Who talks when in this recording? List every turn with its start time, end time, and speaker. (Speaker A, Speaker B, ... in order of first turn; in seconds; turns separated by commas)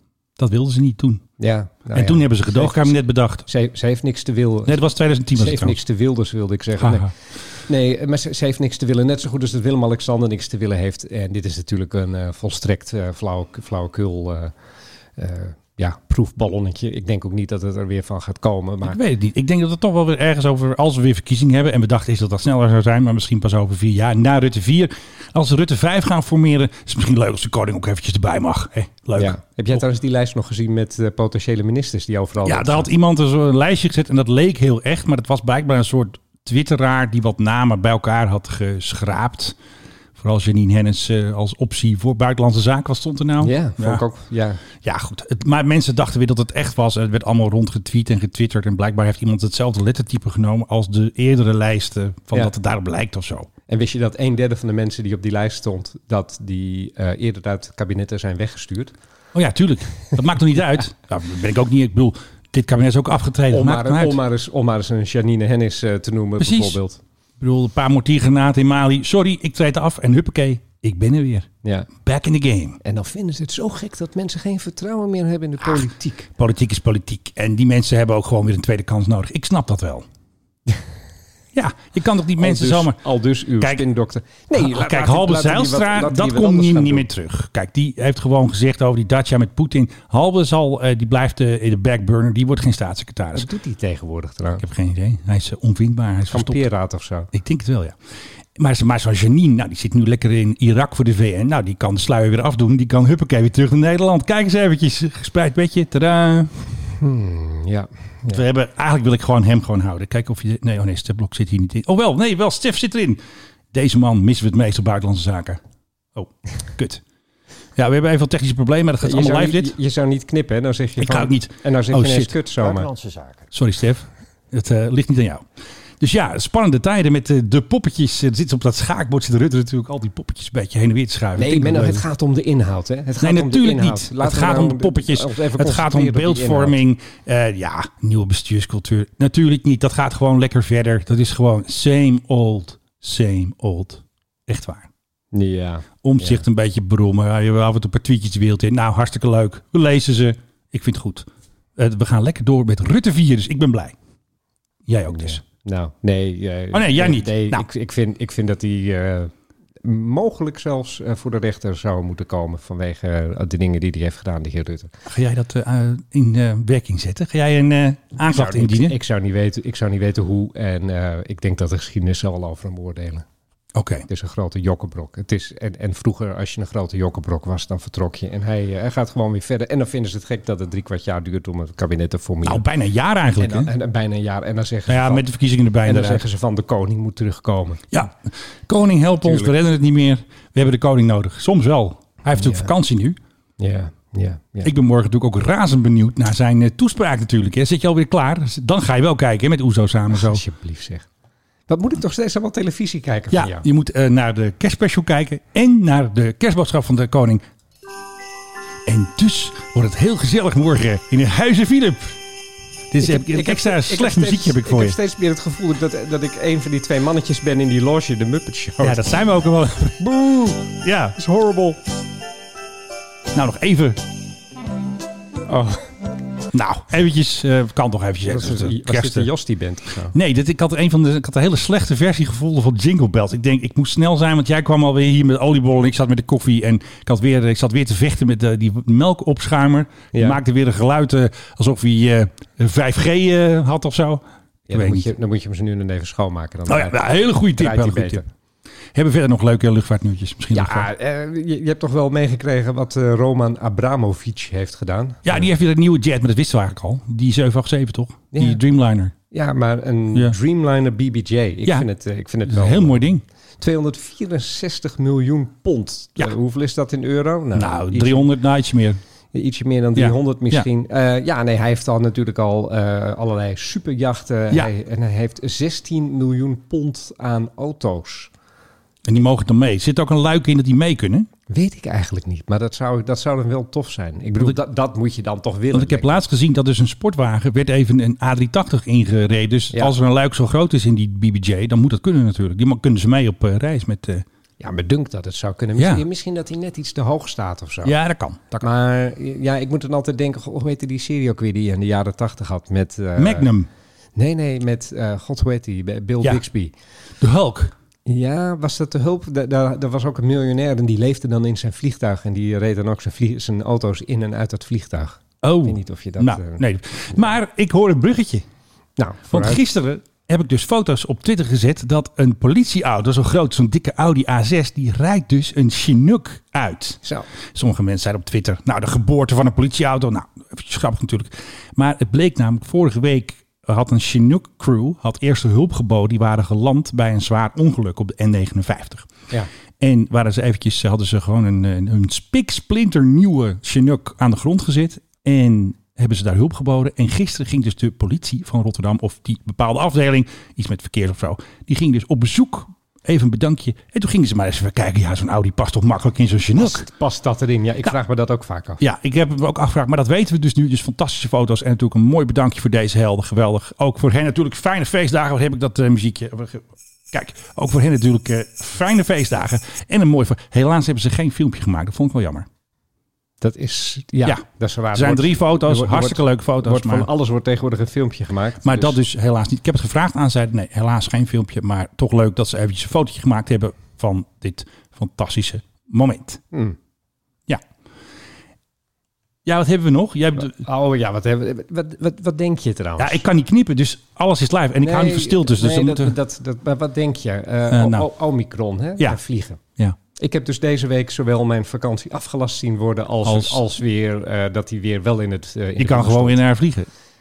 Speaker A: 0.4-1.2, Speaker B: 1.4-4.8, Speaker A: 1.9-3.4, Speaker A: 4.7-5.8, Speaker B: 5.3-7.1, Speaker A: 6.8-7.1, Speaker B: 7.7-14.5, Speaker B: 15.2-19.0, Speaker A: 18.8-29.8, Speaker B: 29.1-32.9, Speaker A: 32.4-39.5, Speaker A: 40.2-44.0, Speaker B: 43.4-44.6, Speaker A: 44.8-53.5, Speaker B: 53.7-58.9, Speaker A: 59.3-64.2, Speaker B: 63.5-67.0, Speaker A: 66.4-66.8, Speaker A: 67.4-71.5, Speaker B: 71.6-71.9, Speaker A: 72.0-72.8, Speaker B: 72.8-76.3, Speaker A: 76.4-80.0, Speaker A: 81.5-83.0, Speaker B: 82.4-87.1, Speaker A: 84.5-93.5, Speaker B: 93.3-94.6, Speaker A: 94.6-96.7, Speaker B: 96.3-97.3, Speaker A: 97.3-97.9, Speaker A: 98.5-106.5, Speaker B: 107.0-108.4, Speaker A: 108.3-113.2, Speaker A: 113.7-115.6, Speaker A: 116.1-117.0, Speaker A: 117.8-119.7, Speaker B: 119.0-122.9, Speaker A: 121.0-125.4, Speaker A: 126.0-132.0, Speaker B: 131.3-136.8, Speaker A: 133.2-144.9, Speaker B: 145.3-146.4, Speaker A: 146.0-153.9, Speaker A: 154.9-155.4, Speaker B: 155.1-164.9, Speaker A: 156.7-157.7, Speaker A: 165.1-168.9, Speaker B: 168.2-173.2, Speaker A: 173.7-174.1, Speaker B: 174.1-182.7, Speaker A: 182.4-183.7, Speaker B: 183.4-185.3, Speaker A: 184.9-186.2, Speaker B: 185.8-188.0, Speaker A: 187.9-193.2, Speaker B: 189.2-189.6, Speaker B: 192.3-192.7, Speaker B: 193.6-194.7, Speaker A: 194.6-200.4, Speaker B: 200.1-201.1, Speaker B: 201.7-203.6, Speaker A: 203.3-207.4, Speaker A: 208.9-212.2, Speaker A: 212.9-215.0, Speaker B: 213.0-219.1, Speaker A: 218.8-220.0, Speaker B: 220.0-221.8, Speaker A: 220.8-221.2, Speaker A: 223.3-224.0, Speaker B: 225.5-225.9, Speaker A: 226.5-229.3, Speaker B: 228.2-230.1, Speaker A: 230.1-245.1, Speaker B: 240.1-240.4, Speaker B: 244.7-248.2, Speaker A: 246.7-248.2, Speaker A: 248.9-250.9, Speaker B: 250.5-255.5, Speaker A: 255.2-259.1, Speaker B: 258.3-258.6, Speaker B: 259.3-263.0, Speaker A: 262.5-263.2, Speaker B: 263.6-268.3, Speaker A: 267.5-269.0, Speaker B: 269.3-278.3, Speaker A: 269.9-270.6, Speaker A: 279.0-281.3, Speaker B: 281.5-286.2, Speaker A: 285.7-294.2, Speaker B: 294.6-297.9, Speaker A: 295.8-296.0, Speaker A: 297.8-298.5, Speaker B: 298.5-303.5, Speaker A: 303.2-303.7, Speaker B: 304.1-306.7, Speaker A: 307.2-307.7, Speaker B: 308.1-317.3, Speaker A: 315.4-318.4, Speaker B: 319.0-319.6, Speaker A: 319.3-327.0, Speaker A: 327.5-339.1, Speaker A: 339.8-356.9, Speaker B: 356.6-358.8, Speaker A: 358.8-372.4, Speaker B: 373.4-379.0, Speaker A: 374.2-377.1, Speaker A: 378.6-386.4, Speaker B: 386.5-386.8, Speaker A: 389.4-390.6, Speaker B: 390.4-393.2, Speaker A: 393.0-396.1, Speaker B: 394.8-399.6, Speaker A: 397.7-398.1, Speaker B: 400.2-406.4, Speaker A: 403.2-403.6, Speaker A: 405.8-406.9